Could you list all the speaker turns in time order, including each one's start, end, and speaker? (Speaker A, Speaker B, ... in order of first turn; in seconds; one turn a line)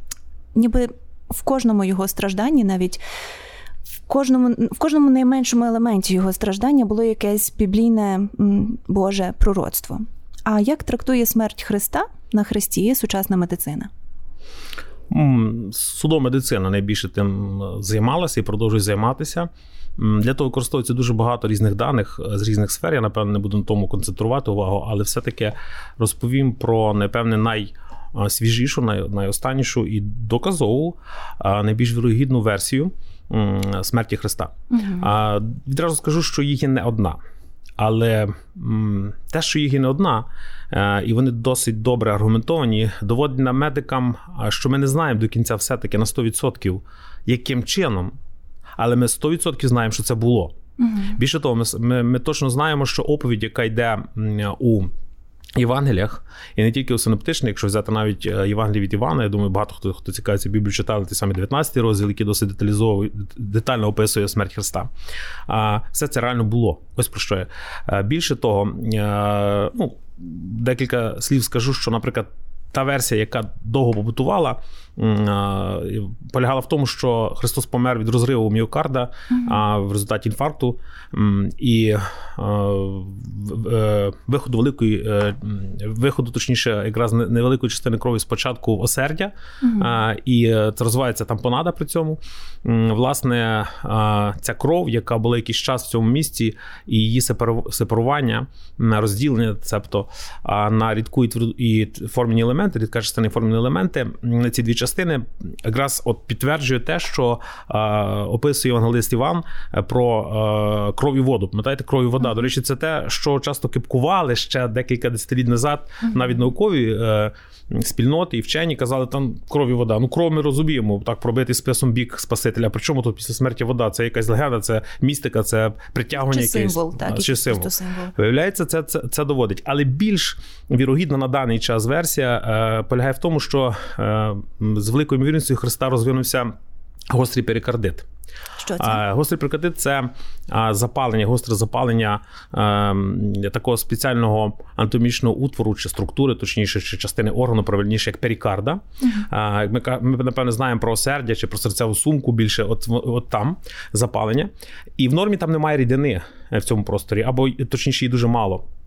Speaker A: 0.5-3.0
Speaker A: 4.1-13.9
Speaker B: 15.1-37.2
Speaker A: 34.7-35.1
Speaker B: 37.8-48.1
Speaker B: 48.8-50.5
Speaker A: 50.8-51.1
Speaker B: 51.1-54.9
Speaker B: 55.5-64.9
Speaker B: 65.5-136.5
Speaker A: 79.3-79.6
Speaker A: 89.6-89.9
Speaker A: 126.1-128.1
Speaker B: 137.1-138.1
Speaker A: 138.6-139.0
Speaker B: 138.8-158.6